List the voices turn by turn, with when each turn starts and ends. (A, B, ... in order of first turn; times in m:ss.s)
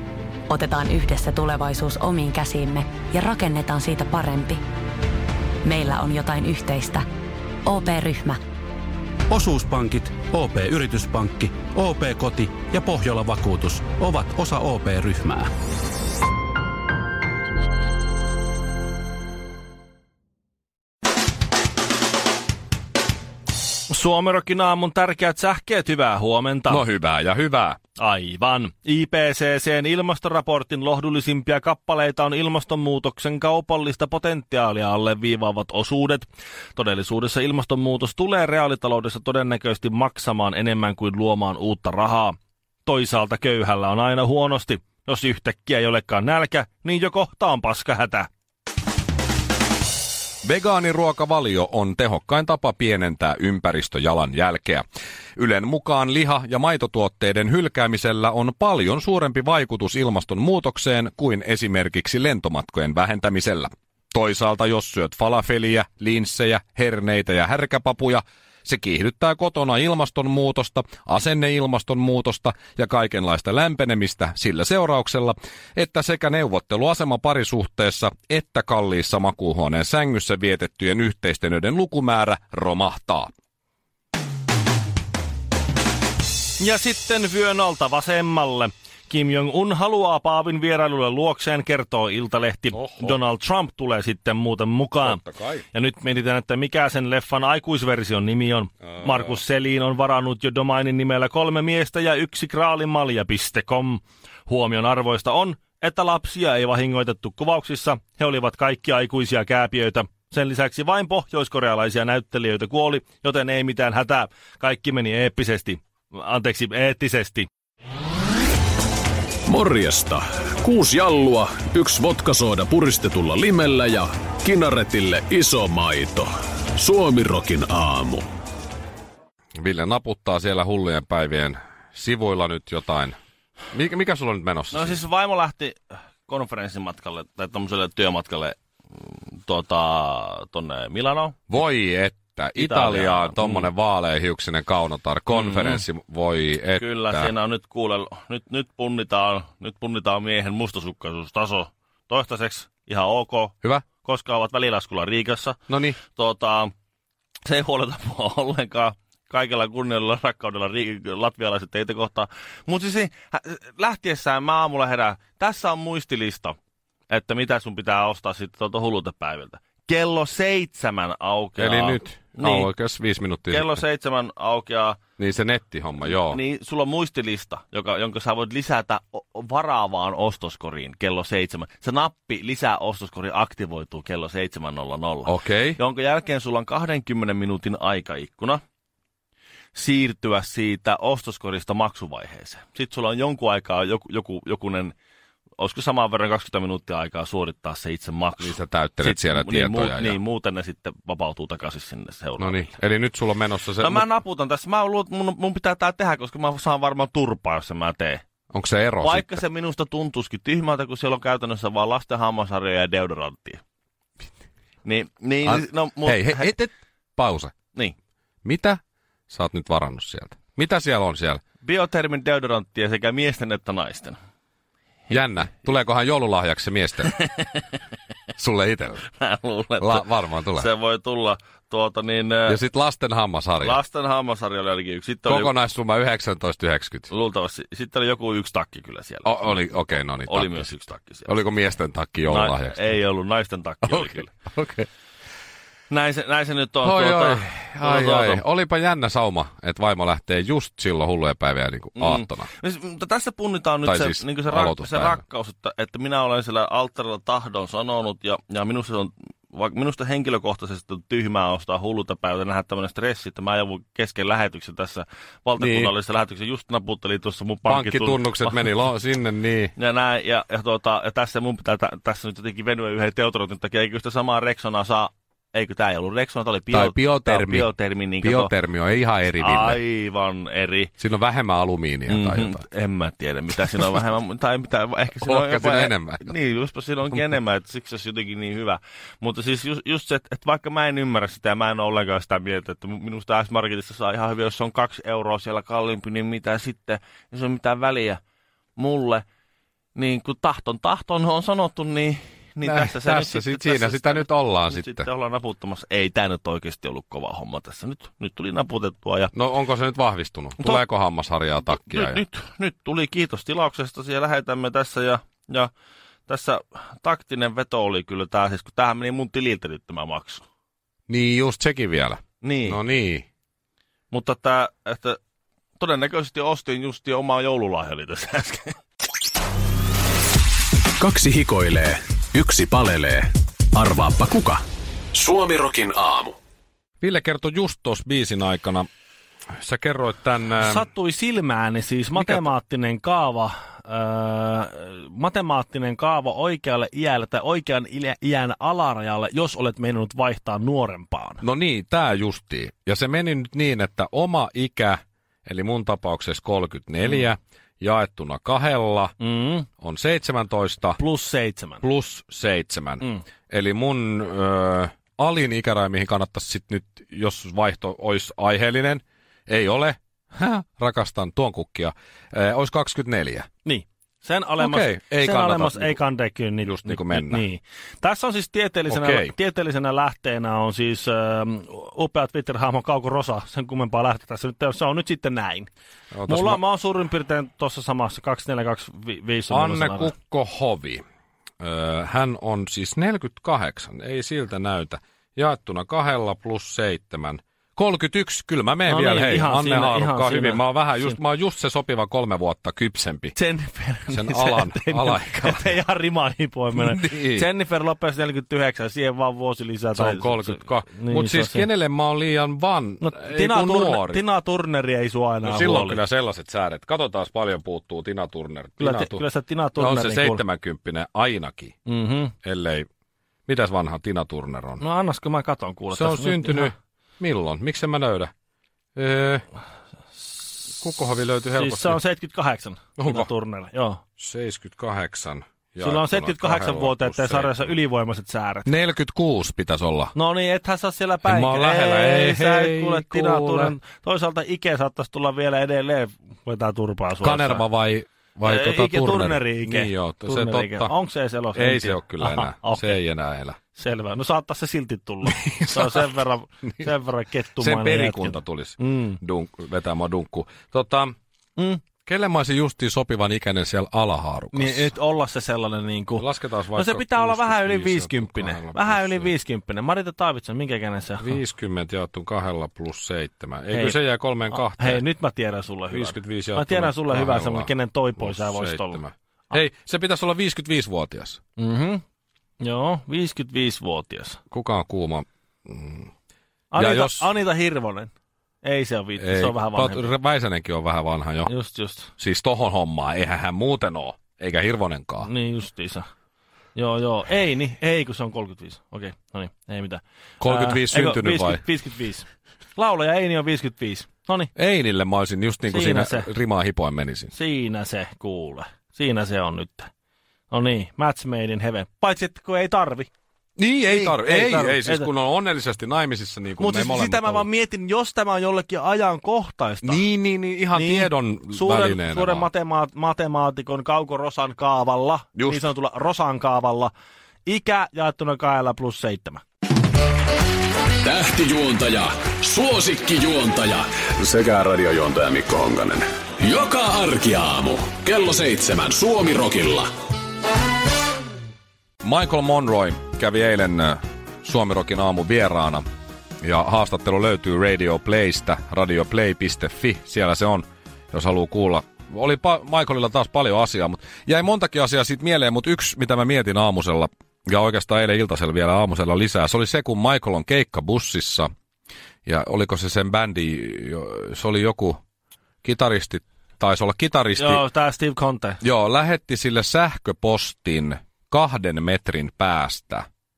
0:00.5-0:04.6 A
0:05.6-0:07.0 A
0:07.6-0:08.4 A
0:09.3-0:15.5 B
0:23.9-0:26.8 C
0:26.7-0:27.8 D
0:28.0-0:48.3 C
0:50.4-0:54.8 D
0:55.4-1:23.3 D
1:26.6-1:57.5 C
1:32.7-1:33.2 D
1:35.0-1:35.6 D
1:38.9-1:39.4 D
1:59.5-2:08.2 E
2:09.6-2:13.2 D
2:13.7-2:15.0 D
2:14.7-2:21.4 C
2:21.5-2:27.3 D
2:22.6-2:23.7 C
2:25.3-2:25.8 C
2:26.8-2:36.7 C
2:35.7-2:36.0 D
2:37.5-2:46.5 C
2:47.1-2:52.7 C
2:51.6-2:53.8 D
2:53.5-2:55.0 C
2:55.2-2:56.4 D
2:56.0-3:08.6 C
3:05.2-3:05.8 D
3:09.7-3:14.9 C
3:15.6-3:22.7 C
3:18.4-3:20.2 D
3:22.4-3:24.1 D
3:23.8-3:28.2 C
3:28.5-3:29.4 D
3:29.0-3:33.6 C
3:34.8-3:36.6 C
3:35.4-3:37.5 D
3:38.4-3:41.4 D
3:41.6-3:44.2 C
3:45.1-3:47.2 D
3:47.3-3:47.6 C
3:48.4-3:49.1 D
3:49.1-3:52.6 C
3:49.8-3:50.7 D
3:52.5-3:53.8 D
3:53.6-3:55.5 C
3:55.2-3:57.1 D
3:57.1-4:01.4 C
3:59.2-4:00.7 D
4:01.2-4:02.9 D
4:02.3-4:04.3 C
4:03.8-4:04.9 D
4:05.9-4:08.4 C
4:06.8-4:12.5 D
4:12.0-4:28.7 C
4:13.8-4:15.2 D
4:25.6-4:25.9 D
4:27.6-4:29.7 D
4:29.8-4:38.5 C
4:36.7-4:39.8 D
4:39.4-4:40.9 C
4:41.0-4:42.6 D
4:42.1-4:58.2 C
4:45.2-4:46.3 D
4:58.8-4:59.2 C
4:59.9-5:09.3 C
5:02.6-5:05.0 D
5:09.3-5:12.2 D
5:11.7-5:15.7 C
5:16.3-5:20.4 C
5:21.1-5:23.2 D
5:22.4-5:22.8 C
5:24.1-5:25.2 C
5:25.8-5:28.8 C
5:31.0-5:34.6 E
5:35.1-5:36.3 E
5:37.0-5:38.8 D
5:39.6-5:40.9 D
5:40.6-5:51.4 C
5:42.2-5:42.5 D
5:51.4-5:59.1 D
5:59.2-5:59.7 C
5:59.8-6:01.0 D
6:01.0-6:01.8 C
6:01.8-6:13.5 D
6:13.6-6:25.7 C
6:14.6-6:16.0 D
6:16.6-6:17.4 D
6:18.9-6:19.3 D
6:26.1-6:26.6 D
6:26.3-6:30.1 C
6:29.5-6:31.0 D
6:31.6-6:43.4 D
6:38.8-6:41.2 C
6:43.3-6:51.7 C
6:44.1-6:45.8 D
6:46.7-6:47.5 D
6:49.9-6:54.2 D
6:53.0-6:56.0 C
6:55.4-6:59.2 D
6:58.8-7:00.4 C
6:59.8-7:01.7 D
7:01.8-7:02.3 C
7:02.4-7:02.9 D
7:03.5-7:04.8 D
7:04.8-7:06.7 C
7:05.9-7:08.3 D
7:09.0-7:09.4 D
7:10.7-7:12.0 D
7:11.5-7:14.0 C
7:13.0-7:13.3 D
7:14.2-7:17.8 D
7:15.8-7:18.7 C
7:18.6-7:20.1 D
7:20.1-7:27.6 C
7:21.2-7:23.8 D
7:27.2-7:30.9 D
7:28.4-7:33.0 C
7:31.5-7:33.6 D
7:33.7-7:39.2 C
7:35.2-7:36.0 D
7:37.6-7:41.1 D
7:41.6-7:41.8 C
7:42.0-7:44.9 D
7:44.5-7:51.4 C
7:46.2-7:49.3 D
7:51.2-7:55.0 D
7:53.7-7:59.0 C
7:55.9-8:01.4 D
8:01.6-8:02.0 C
8:02.6-8:04.4 C
8:04.5-8:06.1 D
8:06.7-8:08.1 C
8:06.7-8:07.3 D
8:08.6-8:10.1 C
8:09.2-8:11.5 D
8:11.4-8:12.1 C
8:12.2-8:15.3 D
8:15.2-8:16.0 C
8:16.7-8:24.5 C
8:20.4-8:21.6 D
8:24.6-8:27.3 D
8:25.7-8:26.3 C
8:27.3-8:29.9 C
8:30.5-8:33.1 C
8:33.6-8:37.4 D
8:33.9-8:35.1 C
8:36.6-8:40.0 C
8:39.8-8:42.5 D
8:40.7-8:46.9 C
8:45.4-8:45.6 D
8:47.4-8:49.4 C
8:51.0-8:59.9 E
9:02.0-9:05.8 D
9:06.4-9:21.5 D
9:22.2-9:25.0 D
9:25.6-9:27.6 D
9:27.4-9:28.6 C
9:28.6-9:33.0 D